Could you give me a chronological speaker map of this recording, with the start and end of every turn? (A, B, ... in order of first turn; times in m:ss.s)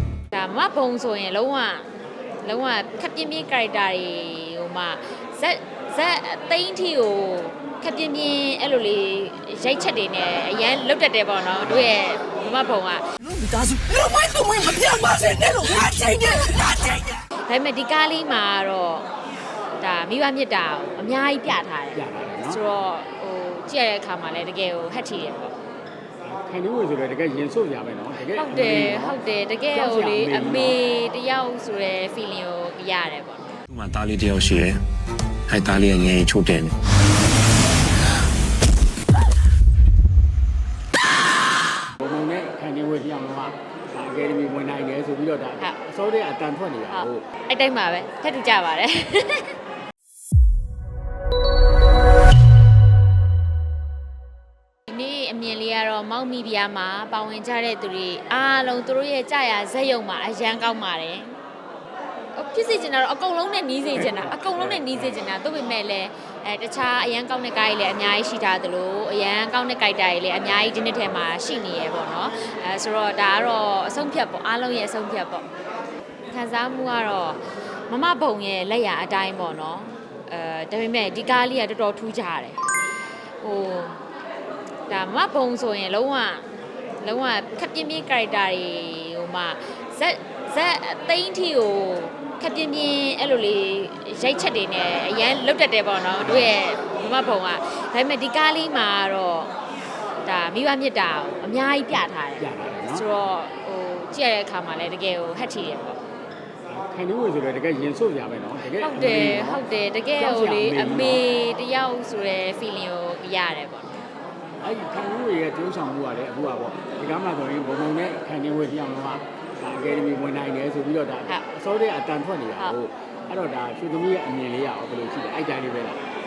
0:00.3-0:01.9 A
0:02.4-0:13.0 A
0:13.2-0:17.2 B
0:17.4-0:19.1 A
0:19.8-0:25.5 A
0:21.9-0:22.6 C
0:26.2-0:29.2 C
0:28.3-0:33.5 A
0:29.7-0:30.8 C
0:33.7-0:34.8 D
0:35.5-0:36.7 D
0:42.0-0:47.2 C
0:46.9-0:49.5 A
0:54.9-1:01.3 A
1:02.3-1:15.5 A
1:04.0-1:05.1 C
1:16.3-1:22.6 A
1:23.4-1:24.0 A
1:24.9-1:26.4 A
1:27.0-1:39.5 A
1:36.2-1:36.5 C
1:40.2-1:46.0 A
1:42.4-1:43.0 C
1:46.7-1:49.6 C
1:48.8-1:53.9 A
1:50.2-1:51.2 C
1:54.6-2:06.0 C